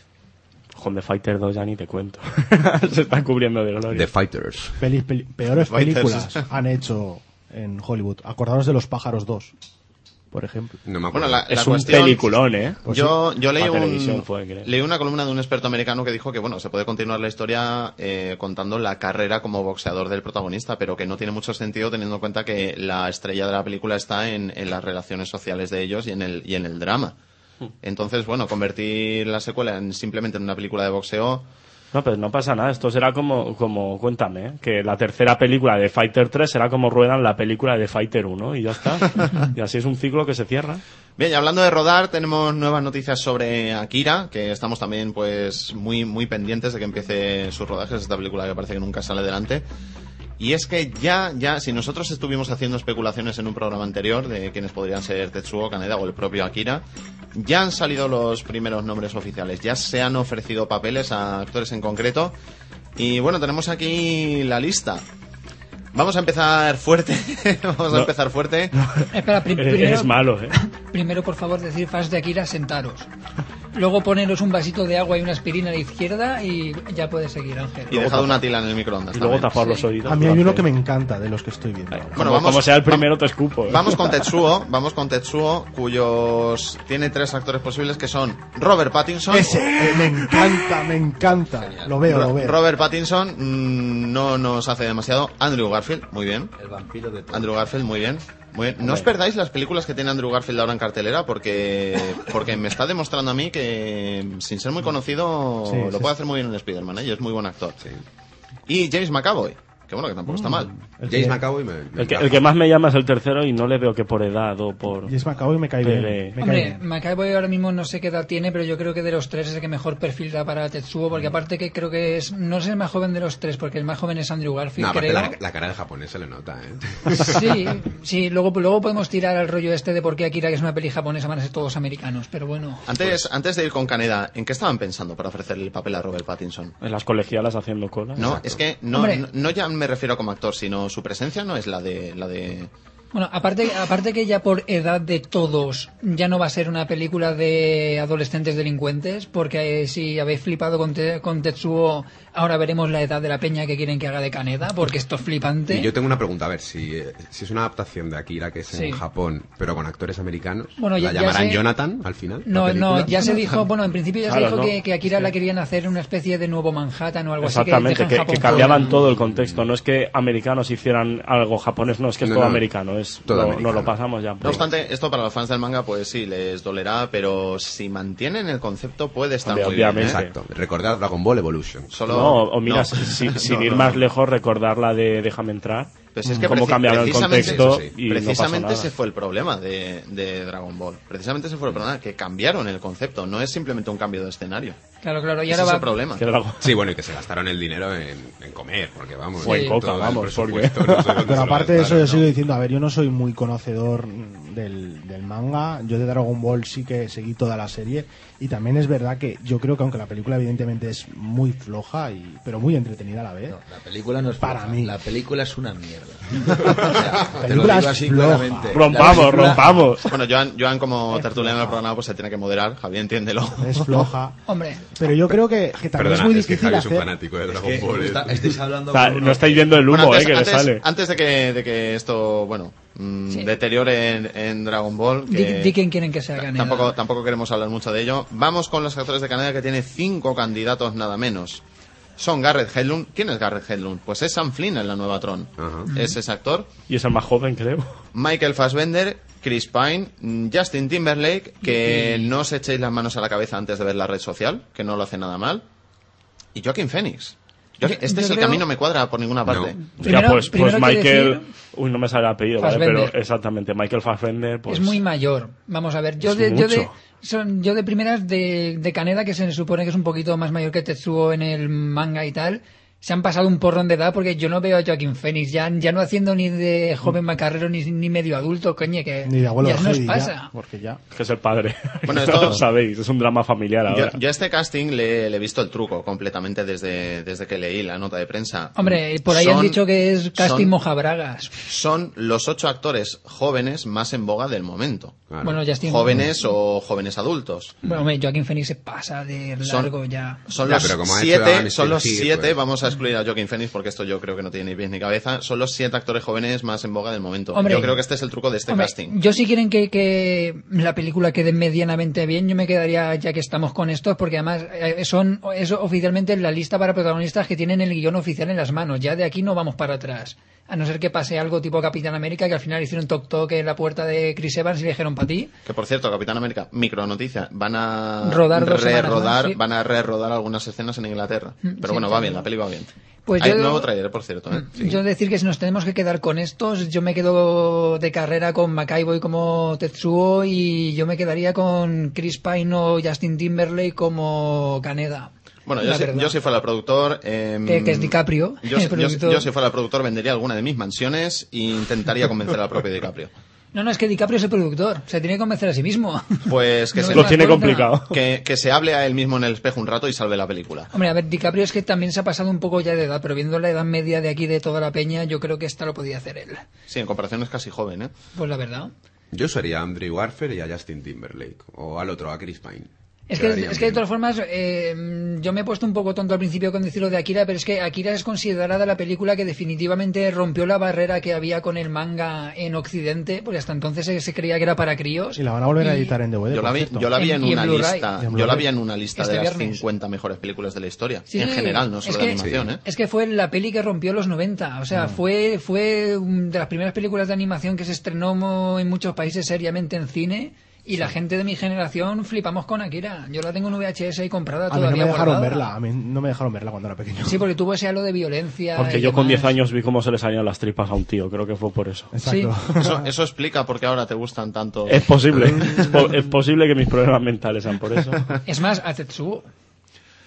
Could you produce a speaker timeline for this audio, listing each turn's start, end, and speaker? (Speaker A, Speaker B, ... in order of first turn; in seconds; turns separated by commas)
Speaker A: 0.8-4.1, Speaker B: 3.9-4.8, Speaker C: 4.8-9.5, Speaker D: 5.6-6.5, Speaker C: 10.3-10.8, Speaker B: 10.9-11.4, Speaker D: 11.1-27.1, Speaker A: 11.5-12.8, Speaker C: 12.9-13.1, Speaker A: 13.6-14.7, Speaker D: 27.8-31.5, Speaker A: 31.9-40.8, Speaker D: 41.2-49.6, Speaker D: 50.4-62.3, Speaker D: 63.0-65.0, Speaker D: 65.9-68.7, Speaker A: 68.8-70.6, Speaker E: 69.1-73.1, Speaker E: 73.7-78.2, Speaker D: 77.9-79.6, Speaker A: 78.1-78.4, Speaker A: 79.1-80.7, Speaker E: 79.6-79.9, Speaker C: 80.0-82.3, Speaker A: 81.9-84.3, Speaker D: 82.2-83.1, Speaker D: 83.7-89.8, Speaker C: 89.3-92.6, Speaker F: 91.5-92.0, Speaker D: 92.1-96.5, Speaker F: 96.6-97.7, Speaker D: 97.3-107.8, Speaker C: 105.7-106.1, Speaker D: 108.7-110.7, Speaker C: 110.3-111.4, Speaker B: 111.1-112.5, Speaker A: 112.0-115.1, Speaker C: 115.1-116.8, Speaker A: 115.8-116.4, Speaker E: 116.4-125.4, Speaker B: 124.8-127.8, Speaker E: 127.2-132.9, Speaker D: 132.9-136.8, Speaker A: 136.8-138.3, Speaker B: 138.2-138.6, Speaker D: 138.2-142.7, Speaker E: 138.9-139.2, Speaker E: 143.1-155.9, Speaker B: 155.7-163.6, Speaker E: 158.7-159.0, Speaker E: 160.8-161.7, Speaker E: 162.4-168.9, Speaker A: 164.3-165.3, Speaker A: 167.4-174.6, Speaker B: 168.5-169.7, Speaker B: 172.2-172.7, Speaker B: 173.2-174.7, Speaker D: 174.4-180.2, Speaker A: 179.4-180.4, Speaker B: 179.9-182.0, Speaker D: 181.9-184.0, Speaker A: 182.1-188.9, Speaker D: 186.1-194.8, Speaker B: 186.8-187.9, Speaker E: 195.0-195.9, Speaker D: 195.5-196.2, Speaker A: 196.2-196.7, Speaker B: 196.6-202.3, Speaker E: 199.4-199.8, Speaker A: 199.4-201.3, Speaker C: 201.2-213.6, Speaker F: 213.5-219.9, Speaker C: 214.4-215.0, Speaker C: 216.9-219.6, Speaker A: 218.7-220.1, Speaker D: 220.1-224.1, Speaker C: 221.2-221.7, Speaker C: 223.6-227.1, Speaker E: 224.5-224.8, Speaker B: 225.9-228.7, Speaker F: 227.5-229.8, Speaker A: 228.9-230.8, Speaker D: 229.9-235.8, Speaker E: 235.3-237.0, Speaker D: 236.3-241.6, Speaker D: 242.2-246.7, Speaker B: 245.6-245.9, Speaker A: 246.9-248.0, Speaker D: 248.1-255.6, Speaker E: 251.7-252.3, Speaker D: 256.6-259.9, Speaker E: 257.8-258.6, Speaker B: 259.5-259.7, Speaker E: 260.0-261.4, Speaker A: 260.0-265.0, Speaker E: 262.6-263.1, Speaker E: 264.7-280.5, Speaker A: 266.2-266.9, Speaker C: 279.2-281.0, Speaker A: 281.1-284.2, Speaker D: 282.1-282.6, Speaker D: 283.9-289.8, Speaker E: 288.8-291.6, Speaker D: 290.3-290.7, Speaker D: 291.6-297.8, Speaker B: 295.3-295.7, Speaker E: 295.4-296.4, Speaker E: 297.8-300.5, Speaker D: 299.6-299.9, Speaker D: 300.5-309.1, Speaker B: 300.6-302.6, Speaker E: 307.5-308.0, Speaker E: 308.7-325.5, Speaker D: 325.7-335.0, Speaker E: 328.2-329.6, Speaker E: 331.6-332.5, Speaker E: 333.3-333.9, Speaker E: 334.5-346.3, Speaker D: 345.7-353.3, Speaker E: 347.7-349.5, Speaker E: 353.7-358.0, Speaker D: 356.5-360.9, Speaker A: 357.1-358.1, Speaker E: 360.9-366.6, Speaker D: 366.9-368.1, Speaker E: 368.4-368.9, Speaker B: 369.3-374.0, Speaker E: 373.3-386.1, Speaker C: 385.4-387.1, Speaker D: 386.5-392.8, Speaker E: 387.1-388.1, Speaker C: 388.2-388.7, Speaker E: 389.1-389.8, Speaker E: 391.3-405.7, Speaker B: 392.4-392.7, Speaker C: 394.9-395.2, Speaker C: 404.7-407.5, Speaker E: 407.2-409.6, Speaker A: 408.8-412.1, Speaker C: 412.1-413.1, Speaker E: 412.2-412.5, Speaker D: 412.8-416.0, Speaker A: 414.9-418.3, Speaker E: 418.5-419.5